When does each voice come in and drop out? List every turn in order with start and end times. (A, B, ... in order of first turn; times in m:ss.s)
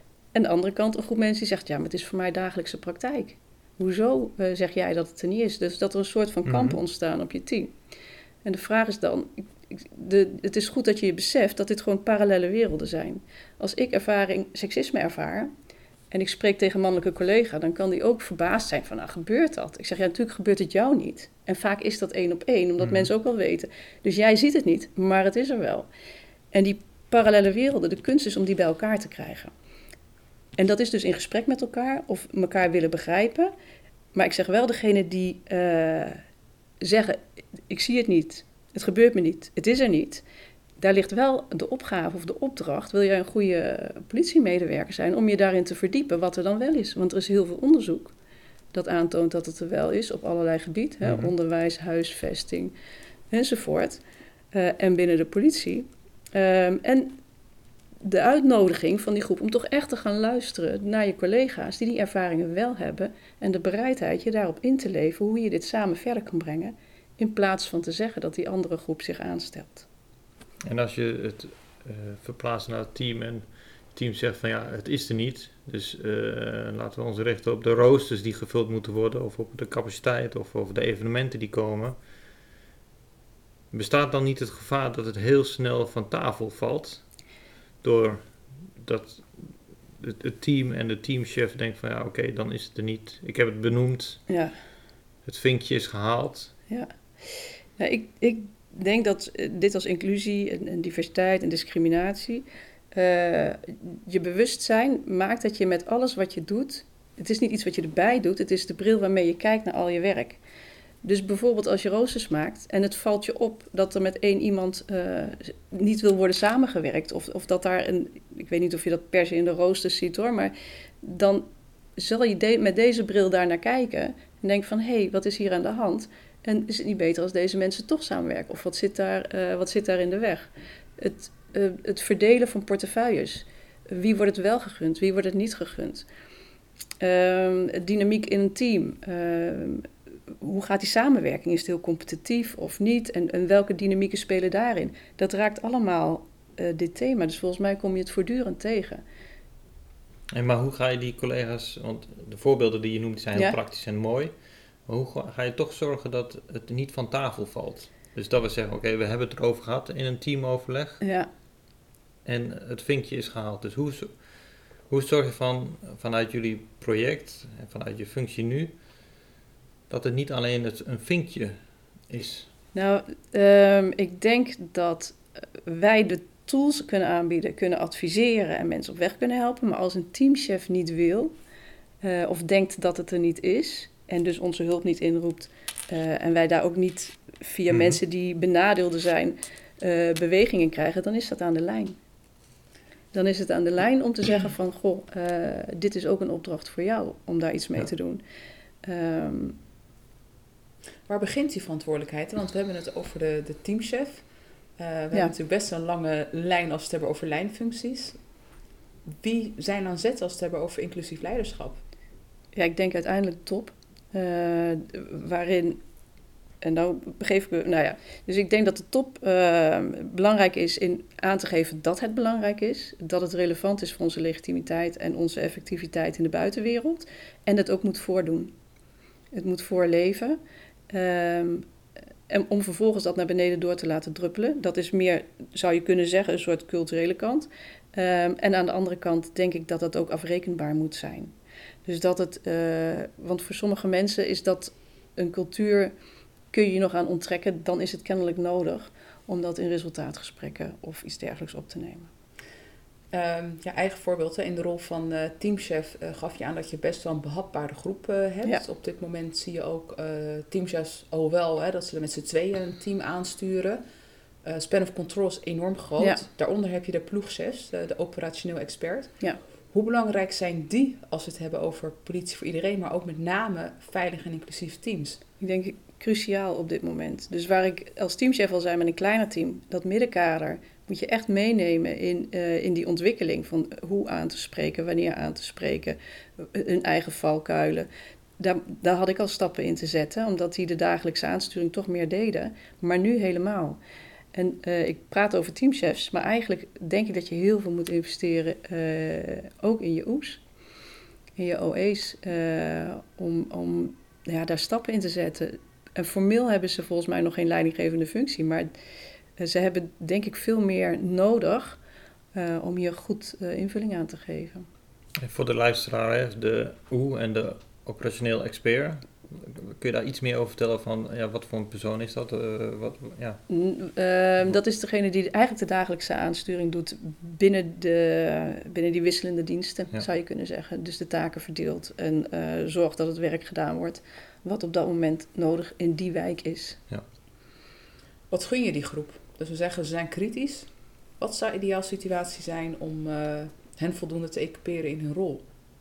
0:00.3-0:07.7 A
0:06.4-0:06.8 B
0:08.4-0:15.5 A
0:16.1-0:25.9 A
0:22.8-0:23.1 B
0:26.5-0:29.5 A
0:30.6-0:33.5 A
0:34.1-0:36.2 A
0:36.8-0:40.2 A
0:40.8-0:48.1 A
0:48.7-0:52.7 A
0:51.0-0:51.3 B
0:53.3-0:54.0 A
0:54.5-0:57.2 A
0:58.0-1:09.8 A
1:10.6-1:22.0 B
1:23.7-1:27.0 B
1:27.8-1:34.2 B
1:34.3-1:34.5 A
1:35.2-1:36.5 B
1:36.7-1:50.4 A
1:51.0-2:01.4 A
2:02.0-2:16.0 A
2:17.0-2:19.9 A
2:20.4-2:29.0 A
2:30.3-2:34.3 B
2:34.8-2:41.0 B
2:41.0-2:41.3 A
2:42.2-2:44.3 B
2:44.9-2:48.7 B
2:49.9-2:52.5 B
2:52.7-3:01.3 A
3:02.0-3:12.0 A
3:07.7-3:08.0 B
3:13.1-3:18.2 A
3:18.8-3:19.6 A
3:21.1-3:24.2 C
3:24.8-3:28.2 C
3:29.2-3:31.8 C
3:32.5-3:35.8 A
3:36.6-3:48.5 A
3:49.3-3:50.4 A
3:50.9-3:51.7 A
3:52.3-4:01.3 A
4:01.8-4:05.9 A
4:06.5-4:12.1 A
4:13.1-4:23.8 C
4:24.4-4:29.2 C
4:26.0-4:26.2 A
4:29.7-4:35.2 C
4:35.4-4:47.9 A
4:48.4-4:53.8 A
4:54.3-5:00.4 A
5:01.4-5:08.7 A
5:09.4-5:11.8 A
5:12.3-5:14.6 A
5:15.2-5:23.4 B
5:23.5-5:36.8 A
5:38.3-5:45.4 C